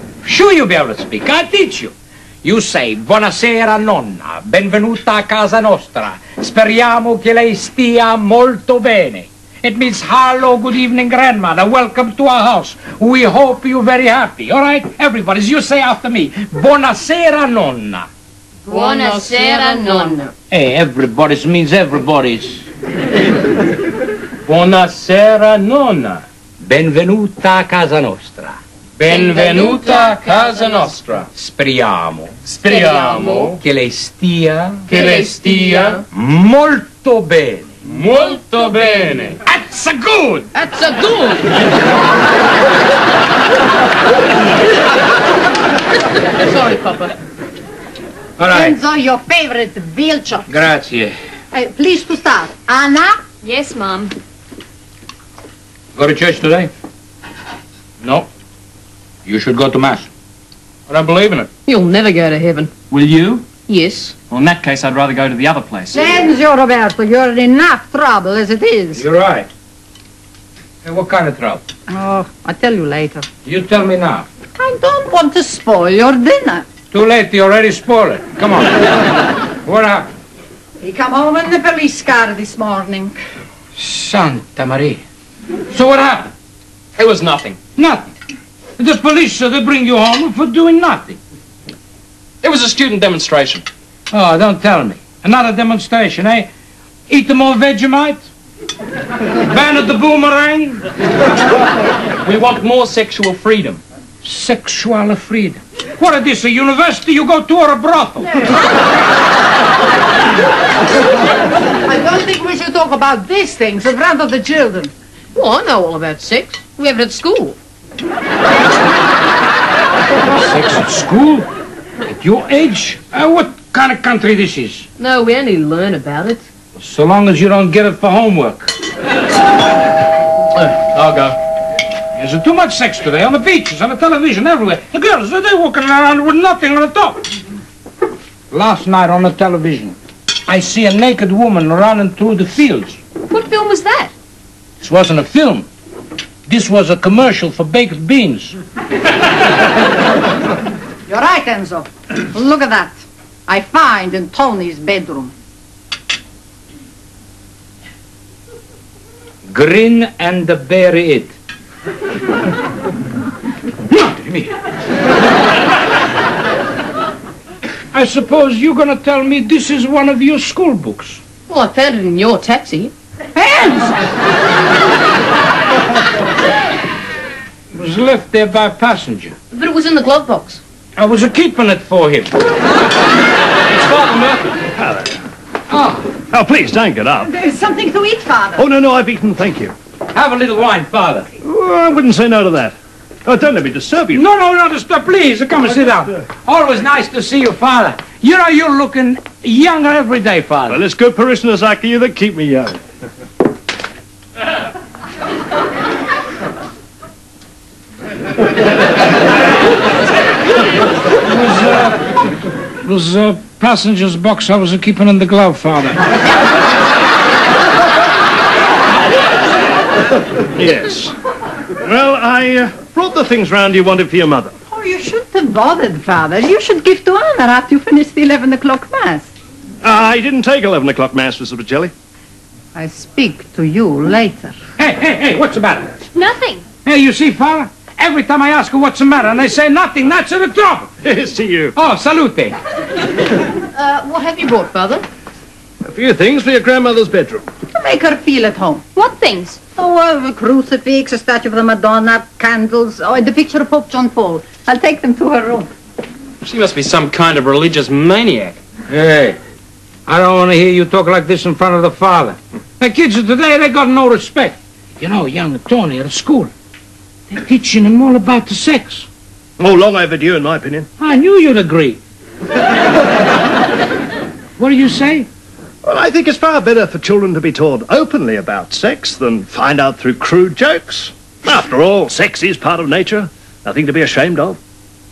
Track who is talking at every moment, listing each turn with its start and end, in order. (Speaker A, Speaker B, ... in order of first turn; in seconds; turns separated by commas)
Speaker A: 0.2-18.1, Speaker B: 18.7-20.3, Speaker C: 18.7-20.1, Speaker A: 20.5-22.6, Speaker D: 24.4-26.2, Speaker A: 26.6-30.0, Speaker D: 29.0-31.3, Speaker B: 29.1-30.9, Speaker A: 31.3-32.4, Speaker D: 32.4-33.6, Speaker B: 32.8-33.5, Speaker A: 33.4-34.9, Speaker D: 34.9-36.0, Speaker B: 34.9-36.0, Speaker A: 36.1-37.7, Speaker D: 37.8-39.4, Speaker A: 39.4-40.5, Speaker B: 40.5-41.5, Speaker B: 46.4-47.1, Speaker A: 48.4-48.8, Speaker E: 48.5-50.5, Speaker A: 50.5-51.1, Speaker E: 51.5-53.2, Speaker C: 53.4-54.1, Speaker A: 56.0-56.7, Speaker A: 58.0-58.3, Speaker A: 59.2-60.1, Speaker D: 60.9-61.5, Speaker B: 61.6-62.7, Speaker D: 62.9-63.5, Speaker B: 63.6-64.2, Speaker D: 64.3-66.0, Speaker E: 65.9-69.0, Speaker A: 68.9-69.5, Speaker A: 70.8-71.6, Speaker E: 71.9-73.2, Speaker A: 73.4-74.3, Speaker E: 74.6-76.7, Speaker A: 76.9-79.0, Speaker A: 79.6-80.1, Speaker E: 80.8-83.2, Speaker A: 83.8-85.0, Speaker A: 85.7-86.3, Speaker D: 87.0-87.6, Speaker A: 87.8-88.1, Speaker A: 88.8-91.2, Speaker D: 92.4-93.7, Speaker A: 94.1-96.5, Speaker A: 97.1-98.3, Speaker A: 99.4-100.8, Speaker D: 102.2-103.8, Speaker A: 104.2-108.4, Speaker E: 111.8-114.9, Speaker B: 115.3-117.6, Speaker A: 120.3-121.5, Speaker A: 122.0-124.9, Speaker B: 125.0-126.5, Speaker A: 126.8-128.7, Speaker D: 130.6-131.4, Speaker A: 132.1-137.2, Speaker A: 138.5-143.0, Speaker C: 143.3-144.1, Speaker A: 144.8-145.7, Speaker A: 146.5-148.6, Speaker E: 151.1-155.3, Speaker A: 159.5-161.3, Speaker A: 163.9-164.5, Speaker A: 167.9-171.2, Speaker B: 171.5-172.9, Speaker E: 173.3-174.0, Speaker A: 177.7-179.3, Speaker B: 179.5-180.6, Speaker A: 180.9-182.3, Speaker F: 184.7-185.2, Speaker A: 185.7-186.1, Speaker F: 186.3-187.3, Speaker E: 187.3-188.6, Speaker F: 188.6-189.7, Speaker A: 190.1-191.3, Speaker F: 191.4-192.7, Speaker F: 193.2-194.2, Speaker A: 194.1-200.8, Speaker F: 200.7-202.8, Speaker A: 211.2-212.0, Speaker A: 212.8-216.0, Speaker F: 220.6-221.1, Speaker F: 221.8-224.5, Speaker E: 224.7-229.3, Speaker F: 229.8-231.9, Speaker E: 232.7-234.5, Speaker A: 234.8-235.9, Speaker C: 236.1-236.6, Speaker A: 236.8-240.9, Speaker F: 241.0-241.7, Speaker A: 241.8-242.6, Speaker B: 243.7-245.0, Speaker F: 245.8-247.4, Speaker E: 247.7-248.8, Speaker C: 248.9-249.6, Speaker E: 249.8-255.7, Speaker D: 256.4-258.6, Speaker A: 258.9-259.4, Speaker A: 260.1-266.5, Speaker A: 267.3-269.1, Speaker F: 269.6-270.9, Speaker A: 271.0-272.0, Speaker A: 274.6-275.3, Speaker F: 275.8-284.6